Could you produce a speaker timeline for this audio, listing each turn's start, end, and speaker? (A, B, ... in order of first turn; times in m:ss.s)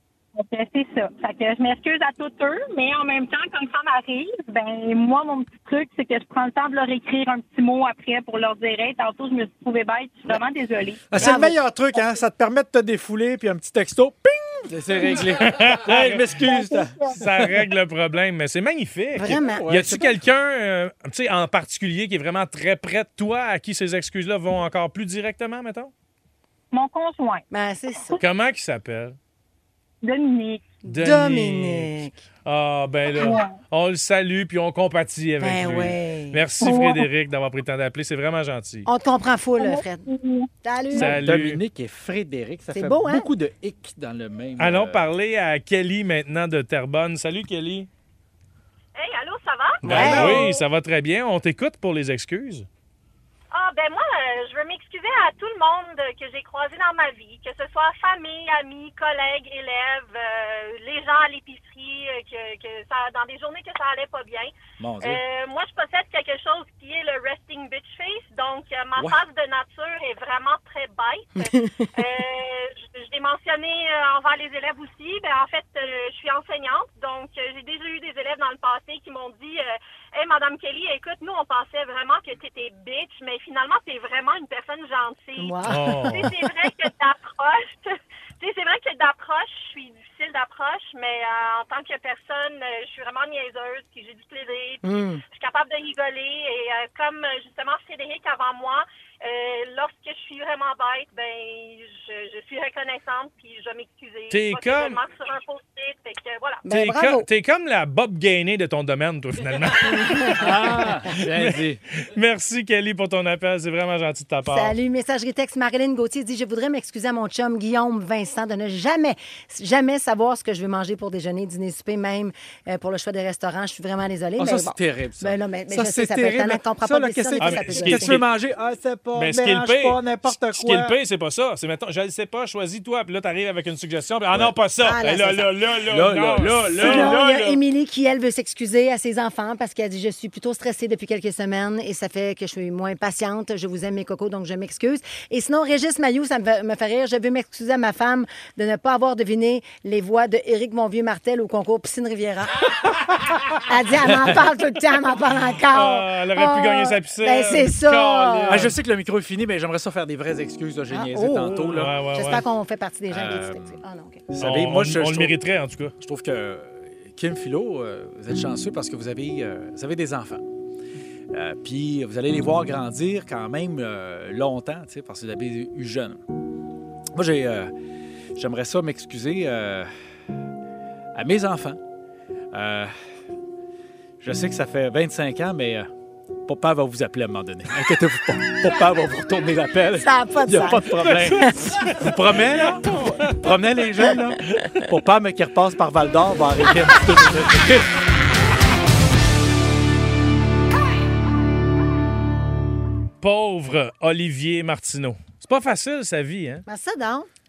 0:00.4-0:11.4 A
0:11.1-0:17.5 B
0:11.2-0:11.6 C
0:15.1-0:16.4 D
0:16.4-0:17.2 A
0:17.1-0:25.9 D
0:19.1-0:19.6 C
0:19.3-0:20.2 B
0:26.7-0:27.4 A
0:27.5-0:28.2 C
0:28.2-0:29.2 D
0:30.0-0:30.6 A
0:30.8-0:31.9 D
0:30.8-0:32.2 C
0:32.4-0:38.9 D
0:33.2-0:33.5 A
0:35.4-0:36.4 C
0:36.6-0:37.0 A
0:38.8-0:40.1 C
0:39.6-0:41.0 A
0:40.6-0:41.1 C
0:41.0-0:41.6 D
0:41.0-0:45.1 B
0:42.7-0:43.3 C
0:44.6-0:47.9 D
0:49.0-0:50.6 E
0:49.8-0:52.7 D
0:49.8-0:50.5 C
0:49.9-0:50.2 B
0:53.5-1:46.6 E
1:04.8-1:05.2 B
1:11.4-1:11.8 C
1:25.4-1:26.3 C
1:25.6-1:26.3 D
1:34.8-1:35.2 C
1:44.3-1:45.0 D
1:46.6-1:47.3 C
1:46.7-1:54.8 D
1:49.9-1:50.4 C
1:50.4-1:51.8 B
1:54.5-2:08.2 C
2:04.4-2:11.0 B
2:07.4-2:08.2 D
2:09.2-2:17.6 D
2:14.8-2:15.5 C
2:15.9-2:17.2 B
2:16.8-2:32.6 C
2:33.6-2:38.7 C
2:34.0-2:34.4 B
2:35.7-2:38.8 D
2:38.5-2:41.9 B
2:40.9-2:44.2 C
2:41.5-2:42.4 D
2:43.1-2:45.3 B
2:44.4-2:45.9 D
2:46.0-2:50.4 B
2:51.3-2:56.2 B
2:57.1-2:57.7 B
2:58.3-2:59.9 B
3:01.1-3:01.8 B
3:02.5-3:02.9 B
3:04.2-3:05.9 B
3:06.4-3:17.9 B
3:10.0-3:11.6 C
3:11.4-3:13.4 D
3:23.2-3:26.6 D
3:26.6-3:27.3 C